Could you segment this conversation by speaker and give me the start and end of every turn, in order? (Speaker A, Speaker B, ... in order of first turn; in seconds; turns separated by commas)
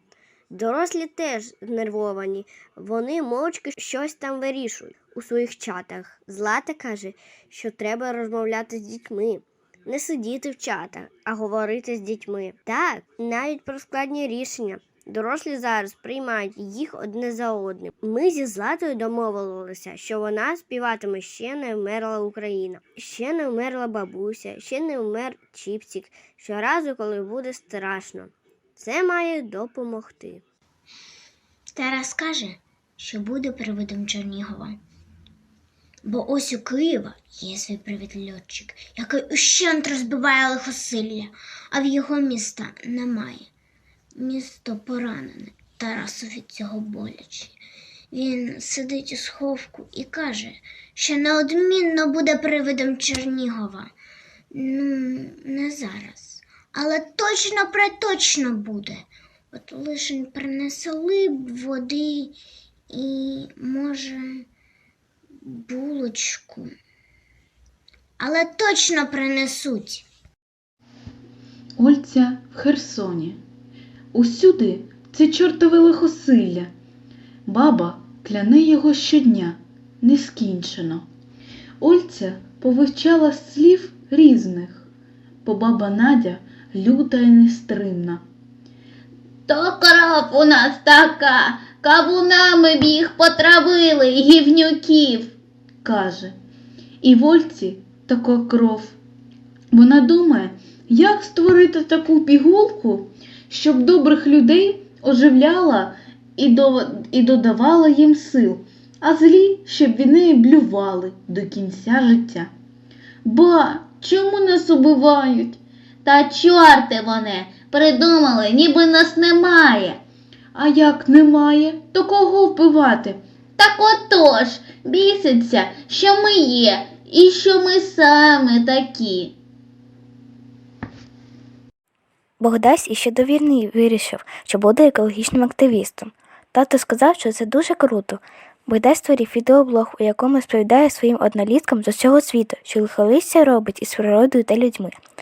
Speaker A: 0.5-30.4, Speaker B: 31.7-34.8, Speaker B: 36.0-43.5, Speaker B: 44.1-47.6, Speaker B: 48.1-53.9, Speaker B: 54.5-62.4, Speaker B: 62.9-64.5, Speaker B: 65.4-66.7, Speaker B: 68.2-70.0, Speaker C: 71.8-73.4, Speaker C: 74.1-76.7, Speaker C: 77.5-81.1, Speaker C: 81.8-84.9, Speaker C: 85.4-88.2, Speaker D: 89.5-95.3, Speaker C: 95.8-96.3, Speaker C: 97.0-99.0, Speaker C: 99.7-112.5, Speaker C: 113.2-115.5, Speaker D: 114.2-114.8, Speaker D: 116.0-120.0, Speaker C: 120.5-123.2, Speaker D: 123.6-129.3, Speaker E: 132.4-144.9